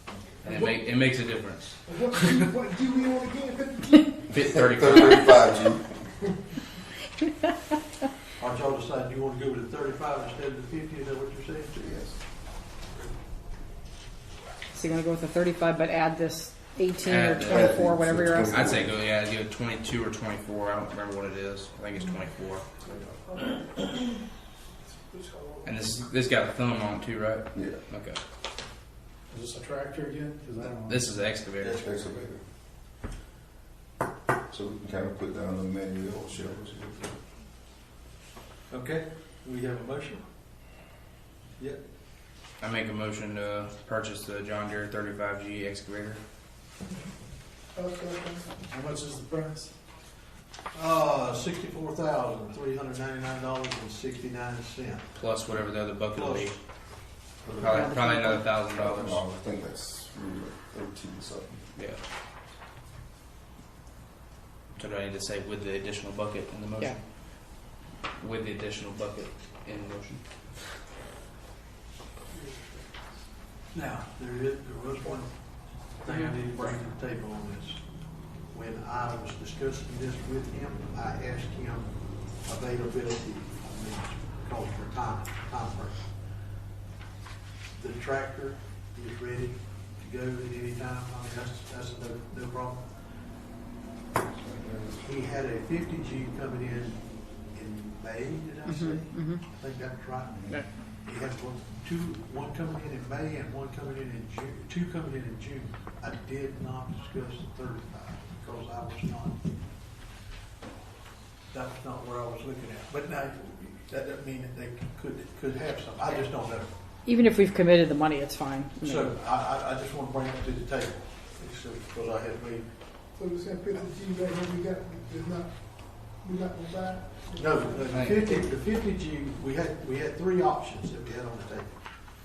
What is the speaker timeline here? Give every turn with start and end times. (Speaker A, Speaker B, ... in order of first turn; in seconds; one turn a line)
Speaker A: 0.4-2.5
Speaker B: 0.5-0.7
Speaker B: 1.9-4.3
Speaker A: 4.3-5.5
Speaker C: 4.4-5.9
Speaker D: 8.4-11.7
Speaker C: 11.7-12.2
Speaker E: 14.7-18.6
Speaker A: 17.1-17.7
Speaker C: 17.5-19.0
Speaker A: 18.4-22.9
Speaker B: 23.3-23.9
Speaker B: 25.1-25.8
Speaker A: 25.6-28.2
Speaker F: 29.3-31.1
Speaker A: 30.7-31.8
Speaker D: 31.6-32.0
Speaker C: 31.8-32.4
Speaker C: 34.5-37.2
Speaker D: 38.7-40.2
Speaker A: 42.6-46.2
Speaker B: 47.8-48.5
Speaker F: 48.7-49.7
Speaker D: 50.7-55.0
Speaker A: 55.1-56.5
Speaker D: 56.1-56.5
Speaker C: 57.4-58.0
Speaker A: 57.6-59.2
Speaker E: 57.7-58.5
Speaker C: 58.7-61.7
Speaker A: 64.8-67.7
Speaker A: 68.2-70.2
Speaker D: 73.7-75.3
Speaker D: 76.0-77.8
Speaker D: 78.5-81.9
Speaker D: 82.5-86.0
Speaker D: 87.7-92.8
Speaker C: 94.3-95.0
Speaker D: 95.0-97.0
Speaker D: 97.5-109.4
Speaker E: 98.7-99.4
Speaker D: 111.5-116.7
Speaker E: 117.0-119.1
Speaker D: 118.8-122.7
Speaker B: 123.2-127.9
Speaker D: 127.4-131.8
Speaker A: 127.9-128.4